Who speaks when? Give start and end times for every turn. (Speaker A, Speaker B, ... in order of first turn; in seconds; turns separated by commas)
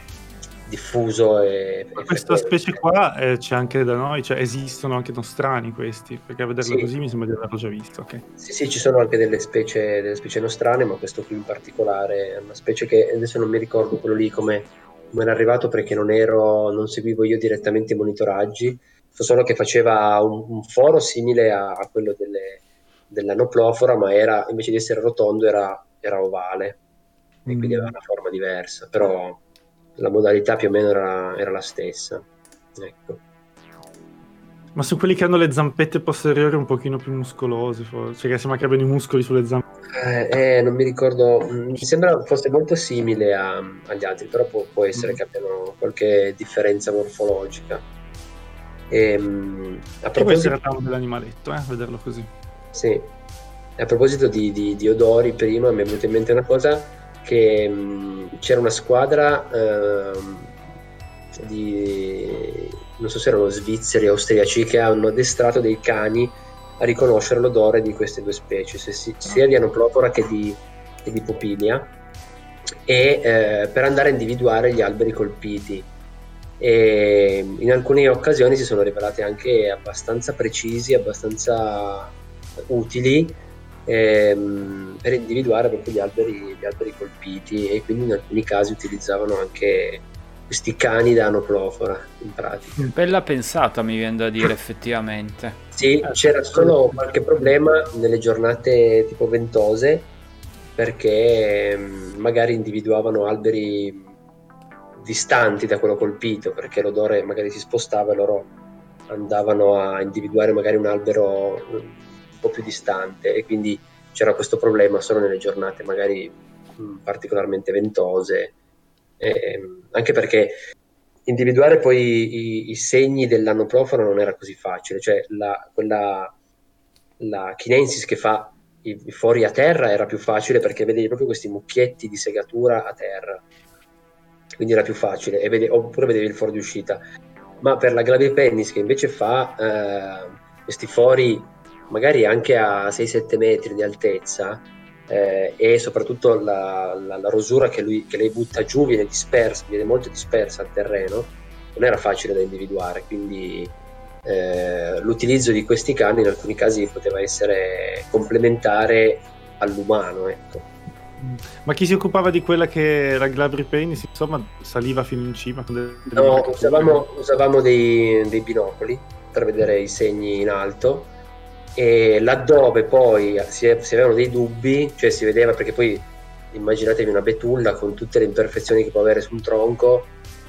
Speaker A: 0.7-2.8, Speaker B: 2.0-8.2, Speaker A: 6.6-6.9, Speaker A: 8.4-26.8, Speaker A: 27.4-29.4, Speaker B: 27.5-27.9, Speaker A: 30.0-33.2, Speaker B: 34.7-39.6, Speaker A: 39.9-47.8, Speaker A: 48.9-50.5, Speaker B: 50.2-52.3, Speaker A: 52.7-53.1, Speaker A: 53.8-60.6, Speaker A: 61.3-71.9, Speaker A: 72.8-75.9, Speaker A: 76.6-92.9, Speaker C: 92.9-95.6, Speaker A: 95.7-100.1, Speaker B: 96.0-97.5, Speaker A: 100.8-104.1, Speaker A: 105.0-108.5, Speaker A: 109.1-118.5, Speaker A: 119.2-120.6, Speaker A: 121.2-126.3, Speaker A: 127.2-133.4, Speaker A: 134.6-137.0, Speaker A: 137.6-160.7, Speaker B: 161.2-167.0, Speaker A: 166.1-171.1, Speaker A: 171.7-180.1